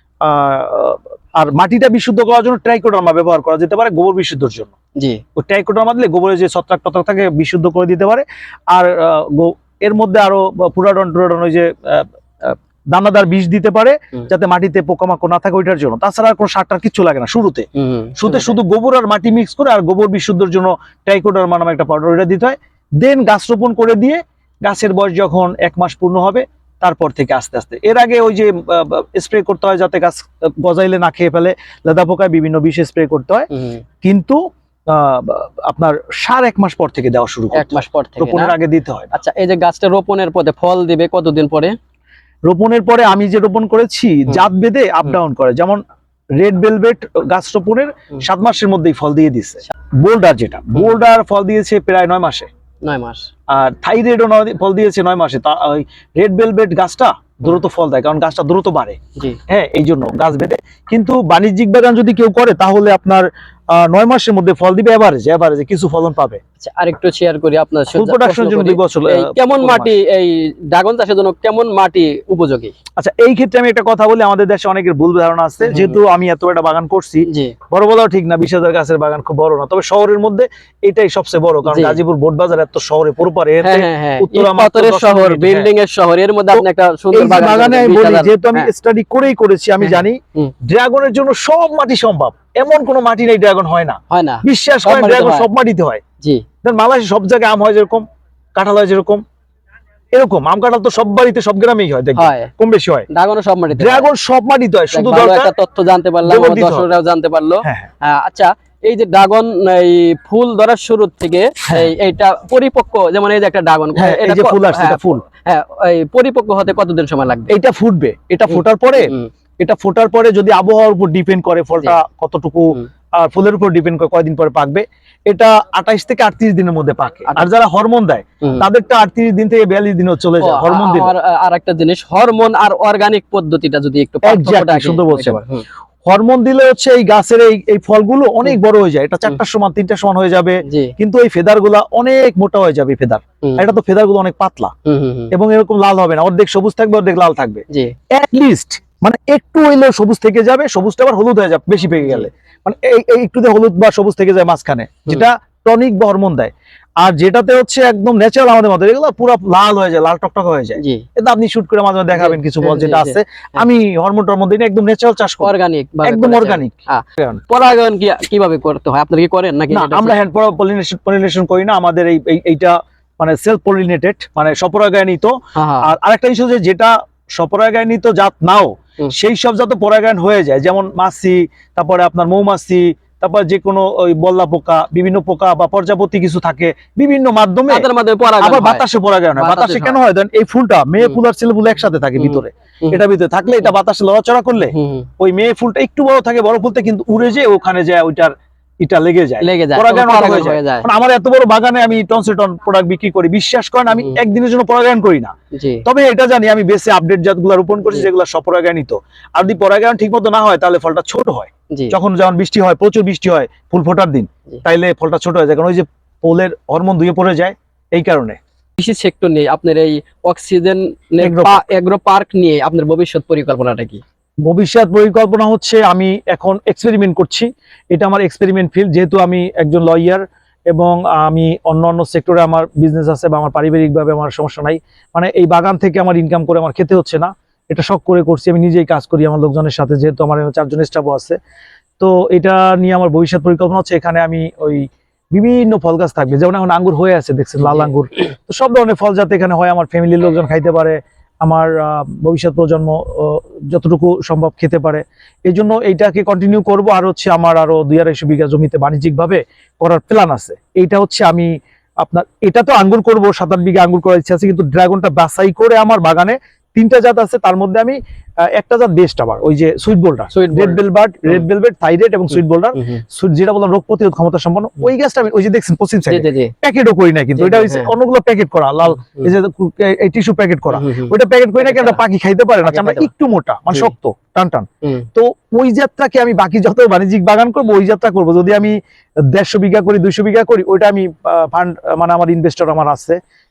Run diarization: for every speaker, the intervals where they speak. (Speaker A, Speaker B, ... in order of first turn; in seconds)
Speaker A: 0.2-4.7, 5.3-17.7, 18.2-33.5, 34.0-34.4, 34.9-39.1, 42.5-45.8, 46.4-52.5, 53.5-59.0, 59.5-66.4, 67.9-69.9, 73.0-85.7, 86.5-96.0, 96.6-98.0, 98.5-99.2, 100.1-103.1, 103.8-105.5, 106.2-106.8, 107.6-107.9, 114.0-115.2, 117.5-131.1, 134.2-135.4, 136.0-144.7, 145.3-165.5, 166.0-167.4, 169.7-187.9, 188.4-205.3, 205.8-218.4, 221.2-221.6, 224.4-241.4, 242.0-268.0, 268.5-288.8, 289.3-293.2
Speaker B: 17.7-18.6, 33.5-33.8, 37.5-38.5, 39.1-41.7, 52.8-53.2, 66.6-72.7, 75.6-76.0, 77.2-77.5, 81.7-82.0, 83.6-88.7, 89.8-90.5, 94.1-95.5, 102.2-102.5, 103.1-104.1, 104.9-117.5, 118.5-119.3, 130.4-135.6, 140.6-140.9, 144.8-145.3, 152.0-152.3, 160.8-161.0, 162.1-163.6, 165.4-170.1, 175.5-175.9, 187.7-188.8, 189.3-190.0, 192.2-193.0, 194.7-195.1, 199.4-200.9, 205.5-205.8, 218.8-224.0, 270.3-271.4, 272.7-273.0, 276.1-276.5, 277.4-277.9, 280.7-282.0, 282.6-283.1